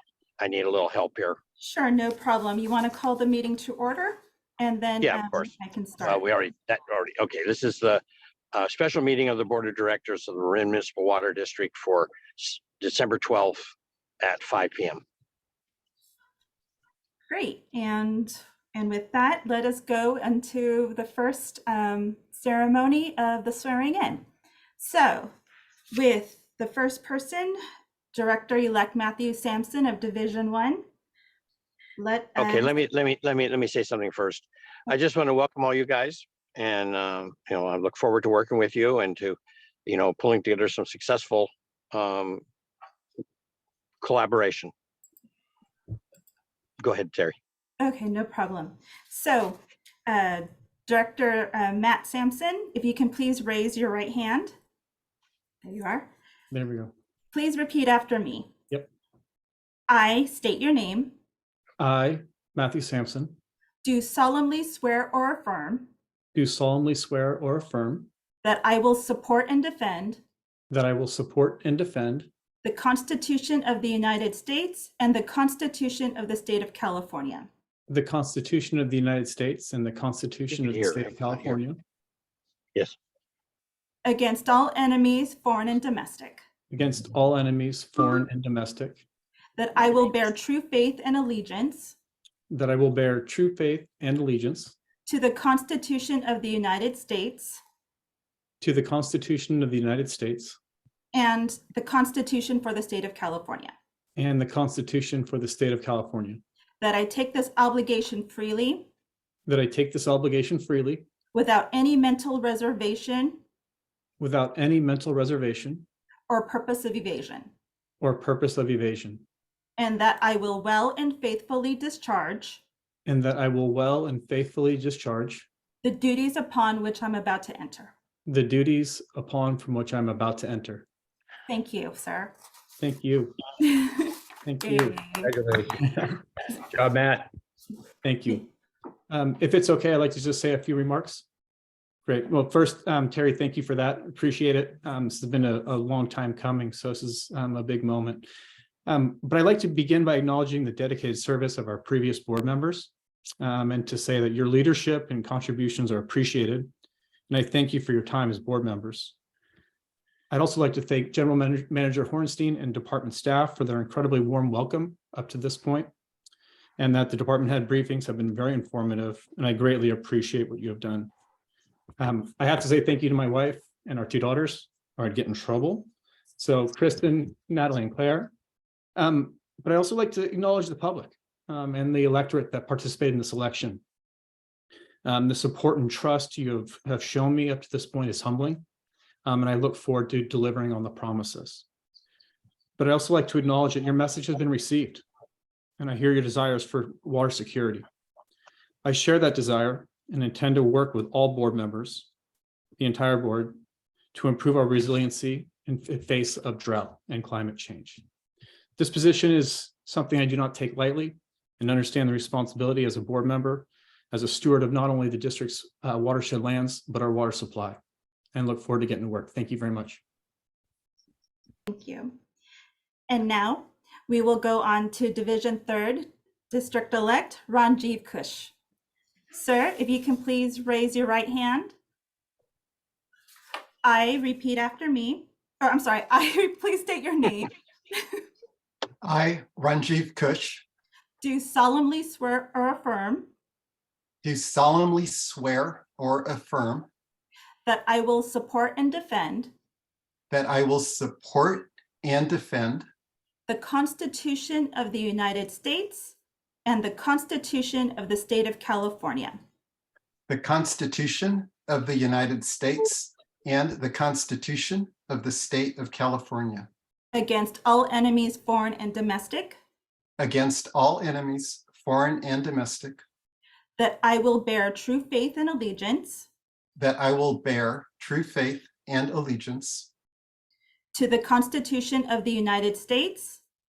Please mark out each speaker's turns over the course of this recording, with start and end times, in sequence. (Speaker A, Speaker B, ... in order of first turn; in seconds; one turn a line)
Speaker A: 0.4-1.4
Speaker B: 1.6-6.2
Speaker A: 5.0-15.0
Speaker B: 17.3-24.2
Speaker B: 24.8-25.3
Speaker B: 25.9-27.6
Speaker B: 28.1-30.8
Speaker B: 32.0-32.7
Speaker A: 32.4-42.4
Speaker A: 44.0-44.7
Speaker A: 46.8-47.4
Speaker B: 47.8-54.5
Speaker B: 55.6-56.1
Speaker C: 56.5-56.9
Speaker B: 57.3-58.5
Speaker B: 59.9-61.1
Speaker C: 61.8-63.4
Speaker B: 63.8-65.9
Speaker C: 66.3-68.1
Speaker B: 68.4-70.2
Speaker C: 70.7-72.3
Speaker B: 72.6-77.5
Speaker C: 77.9-81.7
Speaker A: 80.5-81.6
Speaker B: 84.0-86.4
Speaker C: 86.7-89.0
Speaker B: 89.6-92.0
Speaker C: 92.5-94.8
Speaker B: 95.0-97.6
Speaker C: 98.6-100.6
Speaker B: 101.1-103.7
Speaker C: 104.2-106.4
Speaker B: 106.8-108.9
Speaker C: 109.5-111.0
Speaker B: 111.3-113.4
Speaker C: 114.2-115.8
Speaker B: 116.3-117.5
Speaker C: 118.0-119.2
Speaker B: 119.8-122.6
Speaker C: 123.0-125.5
Speaker B: 125.8-127.9
Speaker C: 128.3-130.8
Speaker B: 131.5-132.3
Speaker C: 132.8-133.3
Speaker B: 133.6-135.3
Speaker C: 134.4-136.2
Speaker C: 136.7-137.2
Speaker C: 138.0-138.5
Speaker C: 139.1-141.2
Speaker C: 142.1-148.3
Speaker C: 148.8-156.7
Speaker C: 157.3-159.1
Speaker C: 160.3-165.9
Speaker C: 166.8-171.1
Speaker C: 172.0-178.3
Speaker C: 178.9-183.8
Speaker C: 185.0-188.6
Speaker C: 189.2-191.6
Speaker C: 192.8-195.0
Speaker C: 195.8-197.8
Speaker C: 198.8-202.1
Speaker C: 202.8-203.6
Speaker C: 204.1-208.0
Speaker C: 208.8-217.8
Speaker C: 218.3-220.0
Speaker B: 221.7-222.2
Speaker B: 223.1-228.5
Speaker B: 229.3-231.8
Speaker B: 233.8-238.2
Speaker D: 239.0-240.6
Speaker B: 241.2-243.3
Speaker D: 244.2-246.9
Speaker B: 247.6-249.5
Speaker D: 250.3-252.8
Speaker B: 253.5-259.4
Speaker D: 260.3-266.7
Speaker B: 267.1-269.6
Speaker D: 270.2-273.0
Speaker B: 273.8-276.3
Speaker D: 276.8-279.9
Speaker B: 280.9-283.4